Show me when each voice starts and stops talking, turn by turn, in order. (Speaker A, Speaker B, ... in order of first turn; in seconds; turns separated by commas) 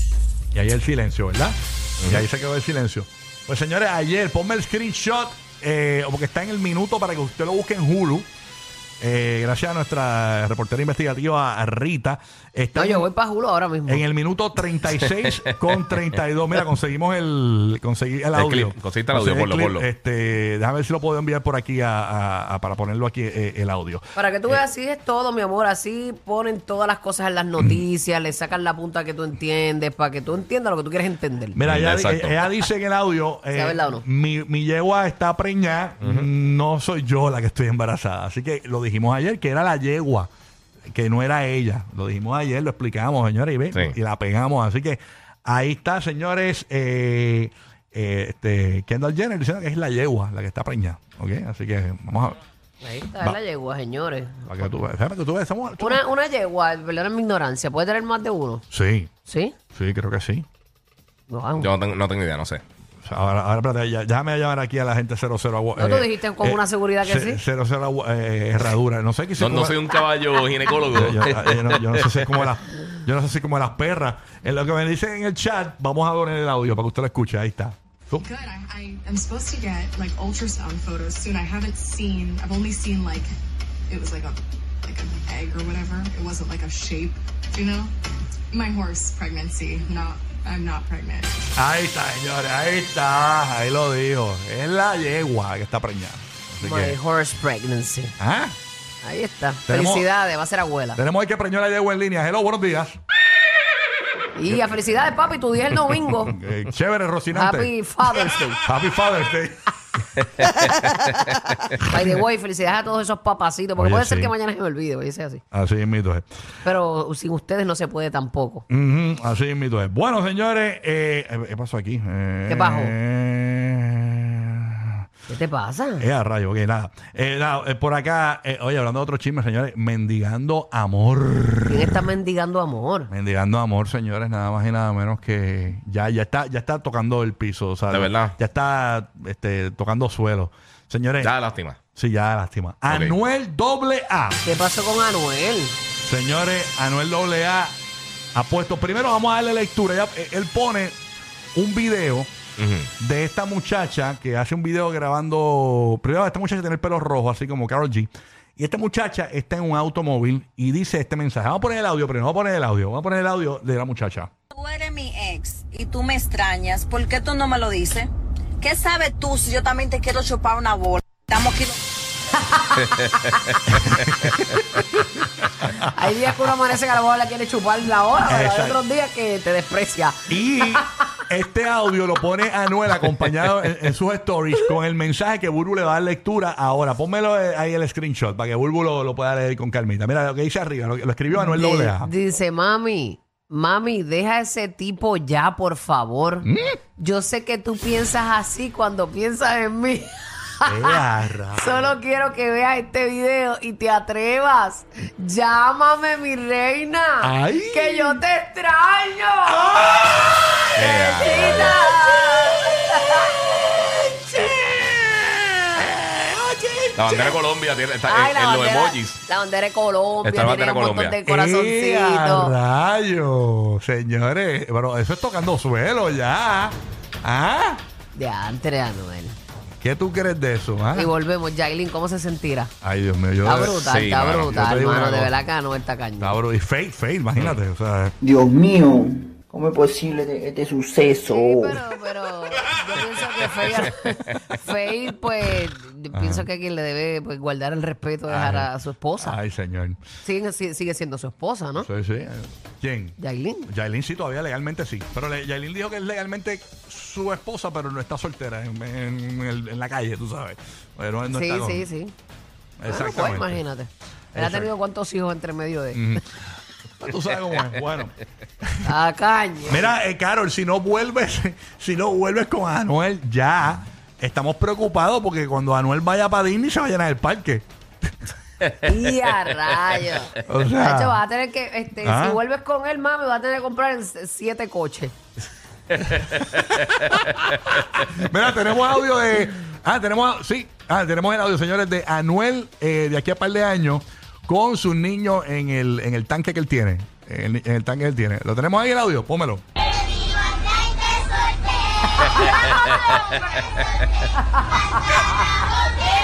Speaker A: 0.5-8.3, Speaker A: 9.0-13.1, Speaker B: 12.7-14.0, Speaker A: 13.9-24.6, Speaker C: 18.3-19.9, Speaker B: 24.2-31.6, Speaker A: 31.6-40.3, Speaker C: 31.6-32.6, Speaker B: 33.5-34.0, Speaker C: 36.0-36.3, Speaker A: 40.9-52.4, Speaker B: 52.8-54.6, Speaker A: 54.5-56.0, Speaker B: 55.8-58.6, Speaker A: 58.7-59.1, Speaker B: 59.3-59.5, Speaker A: 59.7-60.5, Speaker B: 61.3-61.7, Speaker C: 61.6-62.6, Speaker A: 63.0-69.8, Speaker B: 65.8-67.4, Speaker C: 69.4-72.5, Speaker A: 70.9-78.2, Speaker D: 78.2-83.3, Speaker D: 83.9-87.9, Speaker D: 88.5-91.4, Speaker A: 91.6-97.0, Speaker B: 96.6-98.2, Speaker A: 98.2-98.5, Speaker B: 99.0-101.0, Speaker A: 99.7-100.1, Speaker A: 101.0-103.0, Speaker B: 104.3-106.4, Speaker A: 105.9-109.6, Speaker B: 107.3-108.6, Speaker C: 110.2-111.5, Speaker B: 111.8-115.4, Speaker A: 113.8-114.3, Speaker A: 115.5-116.3, Speaker B: 116.6-118.7, Speaker A: 118.7-125.0, Speaker B: 122.5-123.0, Speaker B: 125.3-126.1, Speaker A: 126.0-132.0, Speaker B: 131.7-133.1, Speaker A: 133.1-141.3, Speaker C: 137.9-138.3, Speaker C: 141.2-141.8, Speaker A: 141.9-144.4, Speaker C: 142.9-143.2, Speaker B: 144.4-145.8, Speaker A: 146.1-147.7, Speaker A: 148.3-151.0, Speaker A: 151.6-152.3, Speaker C: 152.6-152.9, Speaker A: 153.0-164.3, Speaker E: 164.5-171.8, Speaker B: 172.6-173.1, Speaker C: 172.8-174.4, Speaker A: 173.7-175.9, Speaker B: 175.9-180.9, Speaker A: 178.3-178.8, Speaker A: 180.3-192.1, Speaker B: 191.3-201.0, Speaker A: 196.4-196.8, Speaker A: 200.6-201.9, Speaker B: 201.6-210.0, Speaker A: 207.2-208.2, Speaker A: 209.5-210.6, Speaker C: 210.8-211.7, Speaker B: 210.8-213.5, Speaker A: 211.2-212.6, Speaker A: 213.8-217.4, Speaker C: 217.0-219.2, Speaker B: 218.1-222.6, Speaker C: 220.2-221.2, Speaker A: 221.3-227.8, Speaker B: 228.1-229.4, Speaker A: 229.8-231.1, Speaker B: 230.9-232.7, Speaker A: 232.8-235.4, Speaker B: 233.4-236.4, Speaker C: 233.9-234.5, Speaker A: 236.2-238.2, Speaker F: 238.2-241.8, Speaker B: 241.3-249.4, Speaker A: 246.1-246.5, Speaker A: 248.3-250.0, Speaker B: 250.2-251.9, Speaker A: 251.8-261.9, Speaker B: 253.2-253.7, Speaker B: 261.3-262.1, Speaker A: 262.8-263.6, Speaker B: 262.9-266.2, Speaker A: 264.3-264.7, Speaker A: 265.9-266.2, Speaker A: 267.0-268.2, Speaker B: 268.8-269.9, Speaker A: 269.7-277.6, Speaker B: 278.8-285.1, Speaker A: 280.5-281.2, Speaker A: 282.0-282.4, Speaker C: 285.9-288.1, Speaker A: 286.8-299.6, Speaker C: 302.2-304.0, Speaker B: 302.4-302.7